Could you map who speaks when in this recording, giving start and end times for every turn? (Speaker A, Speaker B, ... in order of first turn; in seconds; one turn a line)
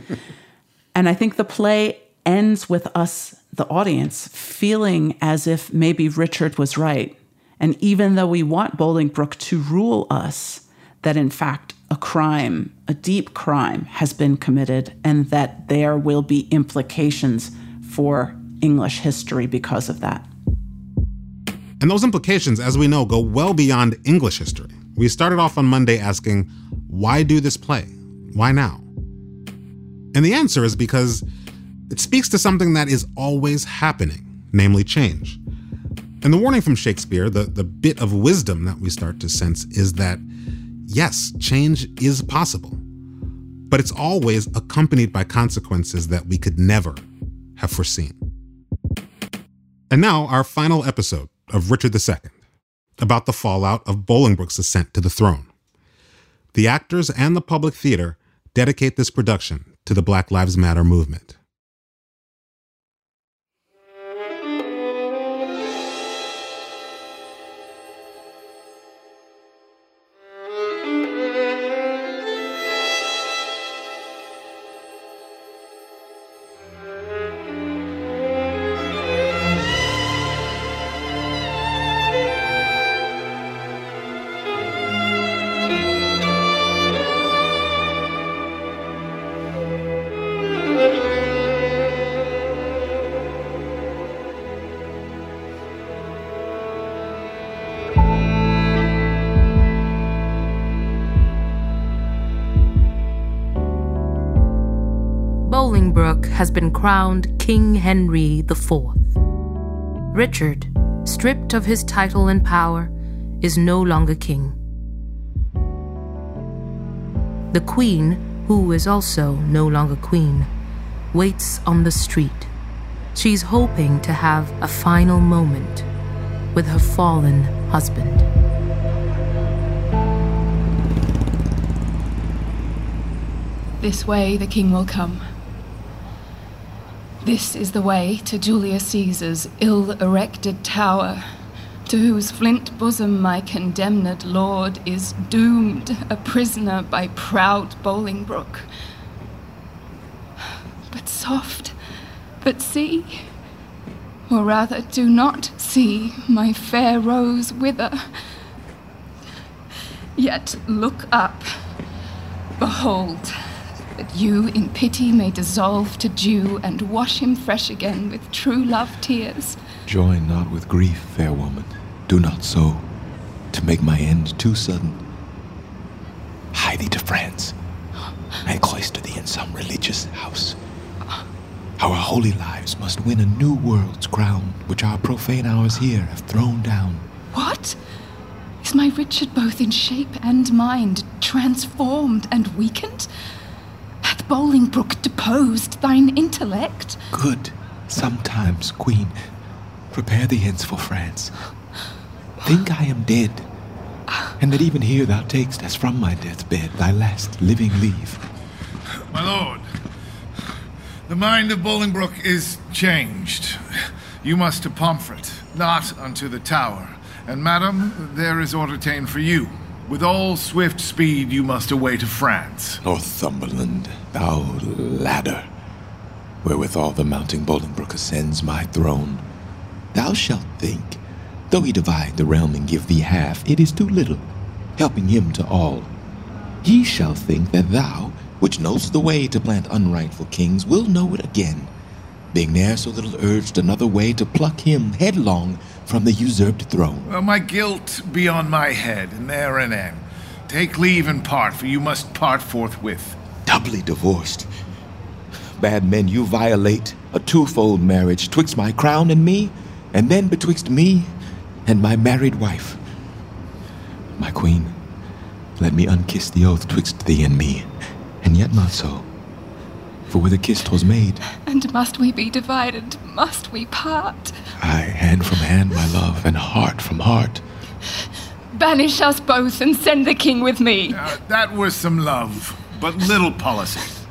Speaker A: 0.9-20.3
Speaker B: 21.8-28.9
Speaker B: 30.1-31.2
Speaker B: 31.9-35.4
Speaker B: 36.2-40.2
Speaker B: 40.9-42.8
Speaker B: 43.7-47.0
Speaker B: 47.6-48.1
Speaker B: 49.9-52.3
Speaker B: 53.0-55.5
Speaker B: 56.5-61.3
Speaker C: 105.4-109.1
Speaker C: 110.1-114.5
Speaker C: 117.5-120.5
Speaker C: 121.1-122.5
Speaker C: 123.1-125.8
Speaker C: 126.5-128.2
Speaker D: 133.8-135.2
Speaker D: 137.2-141.2
Speaker D: 141.9-148.7
Speaker D: 150.9-151.8
Speaker D: 152.4-153.3
Speaker D: 154.3-158.1
Speaker D: 160.2-161.5
Speaker D: 162.6-163.3
Speaker D: 164.0-169.6
Speaker E: 169.8-172.9
Speaker E: 173.5-175.0
Speaker E: 176.5-177.6
Speaker E: 178.4-180.6
Speaker E: 181.8-187.1
Speaker D: 187.3-187.8
Speaker D: 188.6-193.1
Speaker D: 194.0-197.0
Speaker E: 197.1-199.2
Speaker E: 199.9-201.3
Speaker E: 202.4-203.5
Speaker E: 204.4-208.2
Speaker F: 209.1-209.6
Speaker F: 211.1-213.6
Speaker F: 214.2-222.8
Speaker E: 222.8-225.5
Speaker E: 226.4-229.2
Speaker E: 229.9-235.9
Speaker E: 236.6-241.7
Speaker E: 242.3-247.1
Speaker F: 247.1-253.2
Speaker E: 253.4-254.5
Speaker E: 255.6-261.1
Speaker E: 261.6-262.8
Speaker E: 264.2-264.8
Speaker E: 265.6-269.1
Speaker E: 270.1-271.2
Speaker D: 271.5-274.4
Speaker E: 274.6-277.4
Speaker D: 278.6-281.0
Speaker F: 280.9-284.0